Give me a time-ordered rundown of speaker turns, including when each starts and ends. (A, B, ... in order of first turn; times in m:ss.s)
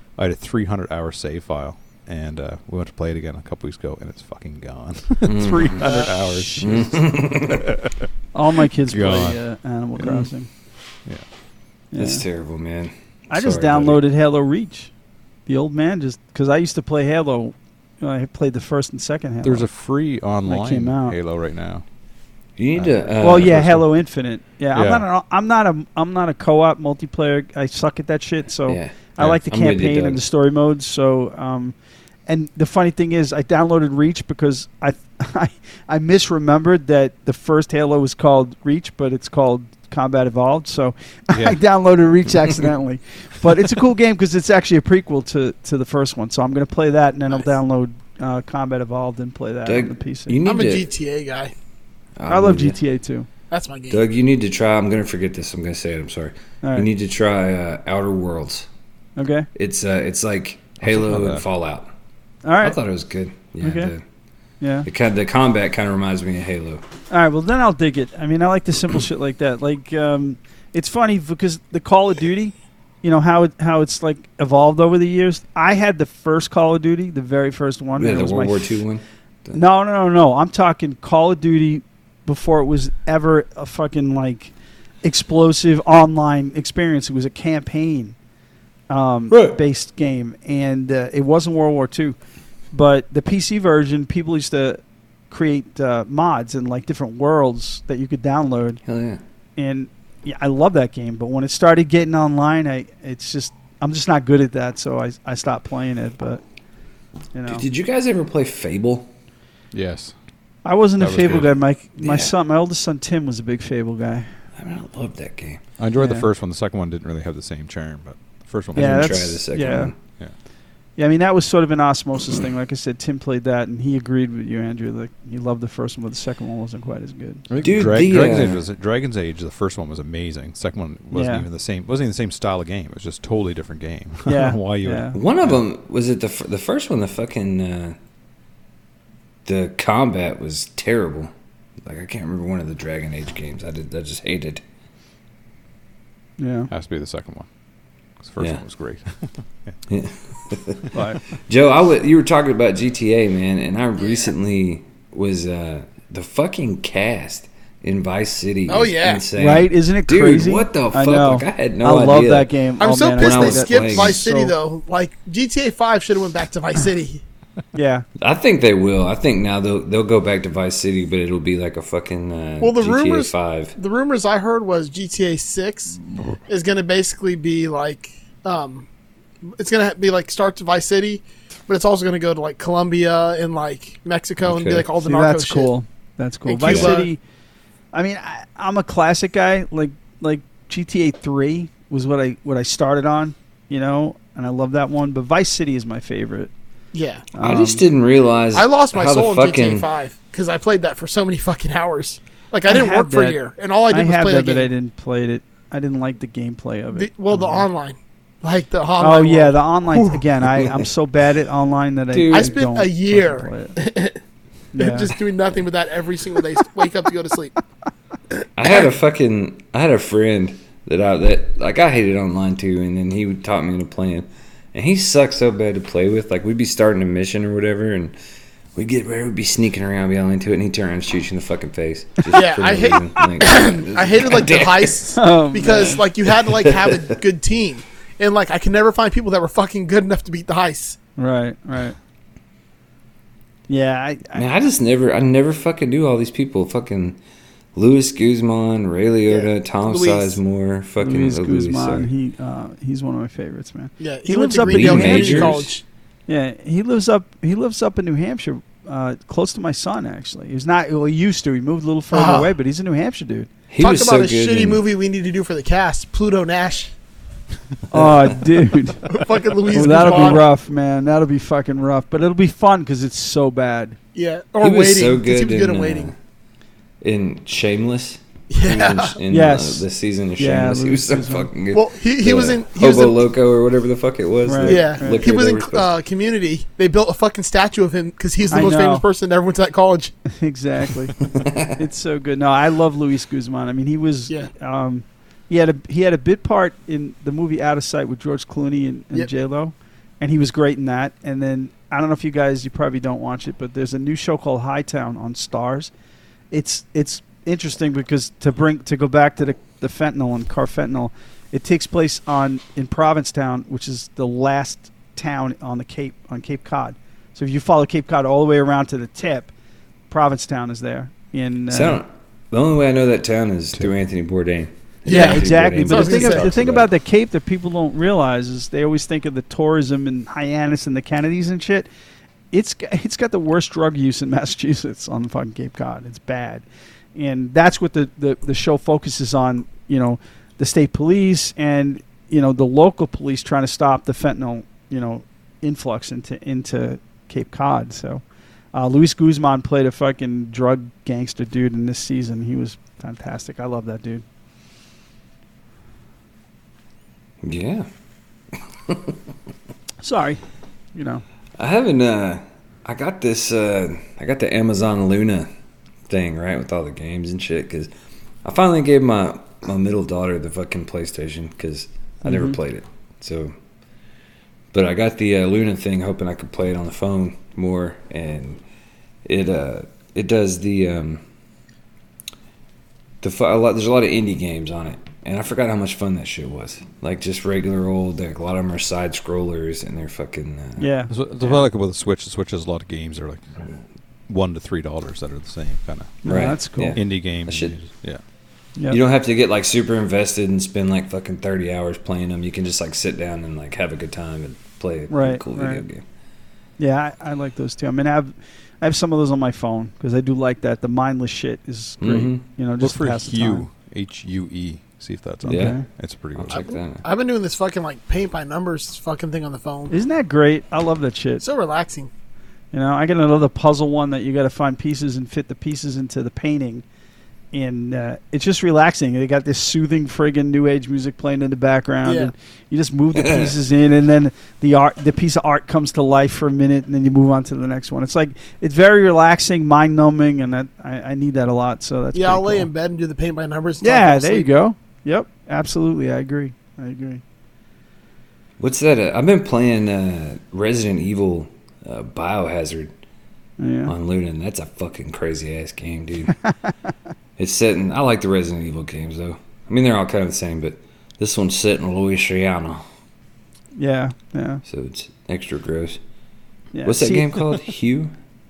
0:00.2-0:08.0 A
0:05.2-0:06.0 B
0:05.5-0:06.8 C
0:06.6-0:07.7 B
0:08.3-0:10.5 C
0:08.9-0:09.4 A
0:11.9-0:12.2 C
0:12.0-0:14.0 B
0:13.3-0:14.9 C
0:15.5-0:19.7 C
0:19.4-0:21.8 A
0:20.5-0:21.2 C
0:22.6-0:23.7 B
0:22.8-0:23.8 A
0:23.2-0:31.8 C
0:24.7-0:25.0 A
0:28.7-0:30.2 B
0:32.3-0:50.4 C
0:41.3-0:41.6 A
0:49.7-0:50.9 B
0:50.4-0:51.5 D
0:52.2-0:52.8 B
0:52.3-0:53.3 C
0:53.5-0:54.0 D
0:53.9-0:58.7 B
0:59.2-0:59.5 C
0:59.6-1:01.9 B
1:00.8-1:01.4 A
1:02.4-1:02.8 C
1:02.6-1:04.0 B
1:03.6-1:03.9 C
1:04.6-1:04.9 C
1:04.8-1:06.8 B
1:07.1-1:18.7 C
1:18.0-1:19.6 B
1:19.5-1:28.2 C
1:28.9-1:32.2 C
1:29.3-1:29.6 B
1:32.7-1:38.8 C
1:38.9-1:39.2 B
1:39.6-1:46.4 C
1:47.3-1:47.6 C
1:47.5-1:49.1 B
1:49.7-1:50.1 A
1:50.6-1:54.3 C
1:51.0-1:51.5 A
1:52.0-1:52.3 B
1:54.6-1:55.6 B
1:55.8-1:59.2 A
1:56.0-1:56.3 C
1:58.8-1:59.9 C
1:58.8-2:00.0 B
2:01.0-2:07.5 C
2:07.5-2:15.6 A
2:07.6-2:08.6 B
2:11.1-2:11.5 C
2:14.3-2:15.2 C
2:15.1-2:18.0 B
2:19.5-2:21.3 B
2:21.8-2:24.6 B
2:26.4-2:26.7 C
2:26.7-2:27.5 A
2:28.2-2:29.3 A
2:29.9-2:30.9 B
2:30.9-2:31.2 C
2:31.4-2:42.5 B
2:34.0-2:34.3 D
2:38.7-2:39.2 D
2:39.4-2:44.5 C
2:42.8-2:47.2 D
2:43.2-2:44.2 B
2:47.7-2:48.0 C
2:48.2-2:53.7 B
2:52.6-2:58.9 D
2:59.6-3:05.7 D
3:04.4-3:04.9 B
3:05.0-3:07.2 C
3:06.5-3:07.1 D
3:06.6-3:07.0 B
3:07.9-3:16.5 C
3:16.9-3:17.3 D
3:17.3-3:17.8 C
3:17.4-3:19.9 B
3:18.5-3:24.7 D
3:22.7-3:23.4 C
3:23.9-3:27.7 C
3:26.9-3:30.2 D
3:29.0-3:33.8 C
3:32.1-3:32.6 B
3:32.3-3:34.2 D
3:34.7-3:35.1 C
3:34.8-3:37.5 D
3:38.6-3:48.2 B
3:48.8-3:55.0 B
3:52.3-4:01.0 D
3:55.1-3:56.0 C
3:56.2-3:57.2 B
4:01.2-4:02.0 C
4:03.7-4:04.4 C
4:04.4-4:07.2 B
4:07.8-4:12.1 B
4:09.3-4:10.4 D
4:11.0-4:15.6 C
4:14.0-4:15.8 D
4:14.6-4:15.7 B
4:16.3-4:23.5 C
4:22.1-4:22.5 D
4:23.7-4:24.8 B
4:23.8-4:26.9 D
4:27.9-4:29.1 C
4:29.1-4:30.5 D
4:29.7-4:34.0 C
4:34.2-4:36.1 D
4:34.6-4:36.2 B
4:37.0-4:45.9 B
4:38.5-4:39.2 D
4:39.3-4:39.8 C
4:40.4-4:41.5 C
4:41.7-4:43.2 D
4:44.4-4:45.2 C
4:44.6-4:50.2 D
4:48.5-4:49.0 C
4:50.3-4:51.2 C
4:51.2-4:51.8 B
4:51.8-5:05.9 C
5:06.5-5:19.5 C
5:20.1-5:22.0 C
5:21.7-5:26.9 B
5:25.1-5:26.5 D
5:25.1-5:31.9 C
5:32.5-5:48.2 C
5:48.7-5:54.2 C
5:57.4-5:57.9 B
6:00.0-6:00.4 C
6:01.0-6:01.2 C
6:01.6-6:05.5 B
6:06.1-6:07.9 B
6:08.4-6:13.5 B
6:12.2-6:12.6 C
6:14.7-6:18.6 B
6:19.2-6:21.2 B
6:23.2-6:30.8 B
6:30.8-6:31.6 C
6:31.1-6:33.5 A
6:34.3-6:36.2 A
6:36.2-6:37.0 C
6:36.2-6:37.8 B
6:37.0-6:38.2 A
6:38.9-6:46.0 B
6:45.1-6:45.8 C
6:46.8-6:53.7 C
6:52.0-6:52.4 B
6:52.8-6:56.6 A
6:55.4-6:55.8 C
6:55.5-6:55.8 B
6:56.4-6:57.0 B
6:56.5-6:59.9 D
6:59.9-7:01.4 C
7:01.4-7:02.1 D
7:02.7-7:06.8 C
7:07.5-7:22.7 C
7:12.0-7:12.3 D
7:13.2-7:13.5 B
7:22.1-7:24.5 D
7:23.8-7:27.2 C
7:28.6-7:32.9 B
7:33.6-7:33.9 C
7:33.9-7:36.4 B
7:37.4-7:42.8 B
7:43.8-7:44.6 C
7:44.7-7:46.0 B
7:46.7-7:47.5 C
7:46.8-7:48.1 B